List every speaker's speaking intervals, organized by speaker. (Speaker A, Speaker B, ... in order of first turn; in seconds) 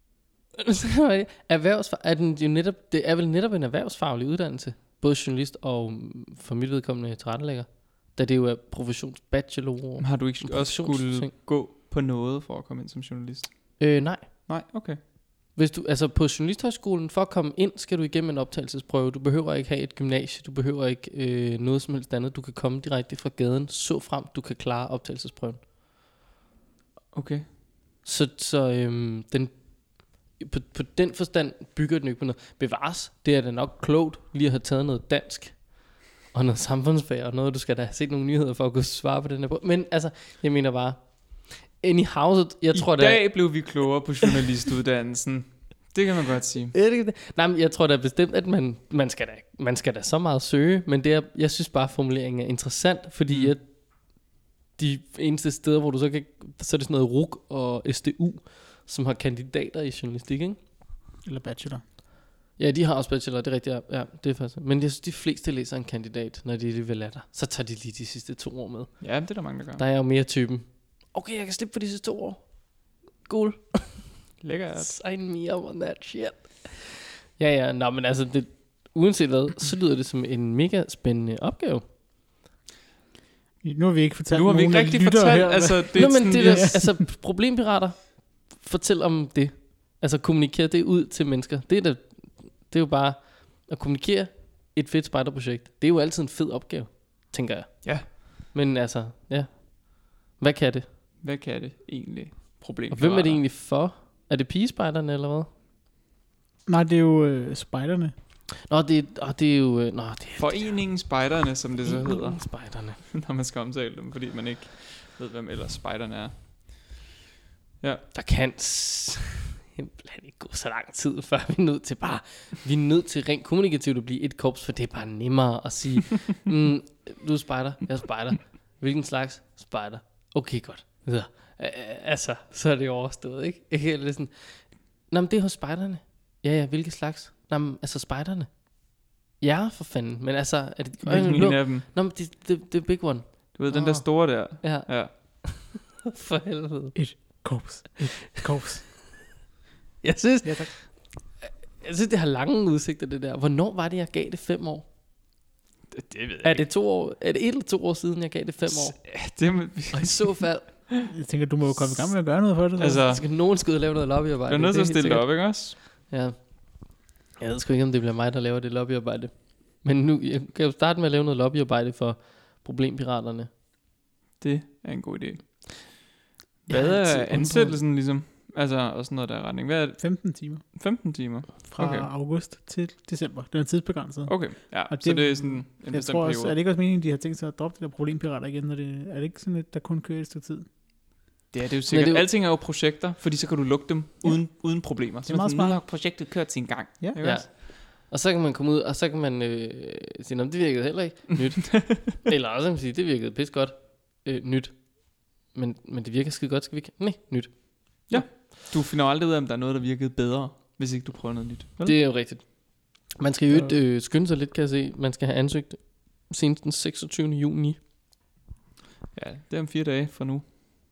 Speaker A: 0.6-11.3, 13.8-14.3, 15.5-25.6, 28.1-29.6, 30.4-35.7, 36.3-43.5, 46.7-53.6, 54.8-60.6, 62.6-68.9, 69.8-72.4, 73.2-74.1, 74.8-81.8, 86.0-100.9, 102.9-105.5, 108.7-110.8, 111.8-113.0, 118.1-138.5, 139.4-147.0, 150.0-150.9, 151.4-154.8, 156.4-159.0, 159.9-160.7, 163.1-165.3, 166.1-166.4, 167.4-169.3, 169.8-173.5, 191.9-192.2, 197.2-204.9, 205.5-207.5, 211.8-212.4, 213.2-217.8
Speaker B: 10.0-13.8, 14.5-15.0, 27.1-27.5, 42.7-46.7, 53.3-53.5, 69.0-69.8, 74.4-74.9, 84.3-86.8, 101.2-103.4, 110.4-116.3, 141.0-141.9, 143.6-145.1, 155.9-156.7, 158.7-161.1, 162.8-163.2, 164.5-165.8, 174.4-175.7, 176.7-180.1, 180.8-182.1, 184.3-186.6, 191.5-197.5, 201.4-202.1, 208.1-212.0, 219.2-220.4
Speaker C: 61.2-61.8, 83.6-86.9, 106.7-108.1, 147.0-148.9, 150.4-150.7, 161.1-163.1, 177.1-177.8, 180.0-180.6, 181.7-184.3, 184.9-190.7, 195.2-195.8